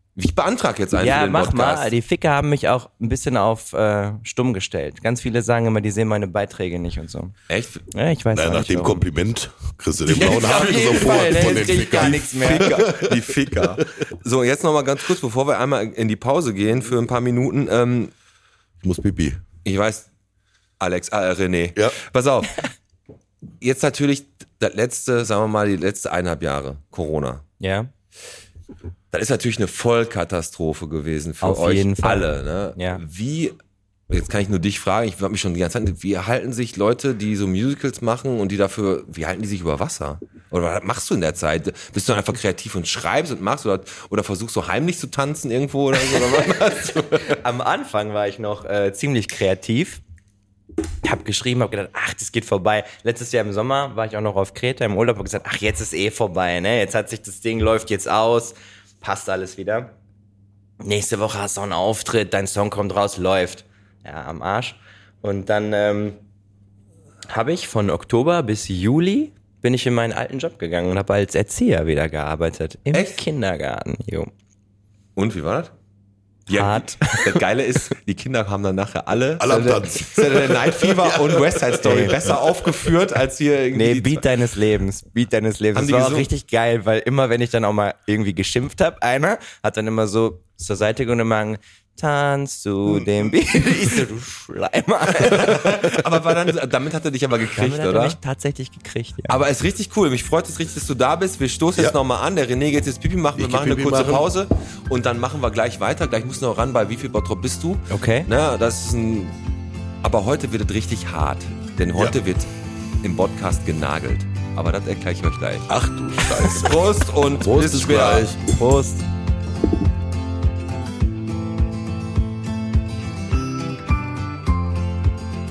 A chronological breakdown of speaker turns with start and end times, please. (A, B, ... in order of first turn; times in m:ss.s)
0:00.2-0:01.9 A
0:01.0-0:07.3 B
0:07.5-0:07.8 A
0:07.9-0:09.1 B
0:08.3-0:13.6 C
0:10.1-0:12.7 B
0:10.1-0:18.1 A
0:18.8-0:19.4 C
0:19.6-0:20.1 A
0:20.8-0:22.6 A
0:23.6-0:27.4 A
0:27.6-0:27.9 B
0:29.1-0:33.6 A
0:31.4-0:33.0 B
0:34.1-0:47.4 A
0:47.2-0:50.0 B
0:51.0-0:59.9 B
1:00.8-1:06.2 B
1:07.3-1:14.3 B
1:15.2-1:15.7 A
1:16.5-1:24.2 A
1:16.5-1:17.4 B
1:19.4-1:21.6 C
1:19.5-1:19.8 B
1:21.8-1:22.2 B
1:23.7-1:36.0 B
1:25.7-1:26.3 A
1:35.1-1:38.2 A
1:37.6-1:39.4 B
1:39.3-1:49.4 A
1:43.3-1:44.3 C
1:47.9-1:48.3 B
1:50.0-1:52.5 A
1:53.0-1:55.7 A
1:55.7-1:56.8 C
1:56.3-1:58.3 A
1:57.4-1:58.4 C
1:58.5-1:59.0 B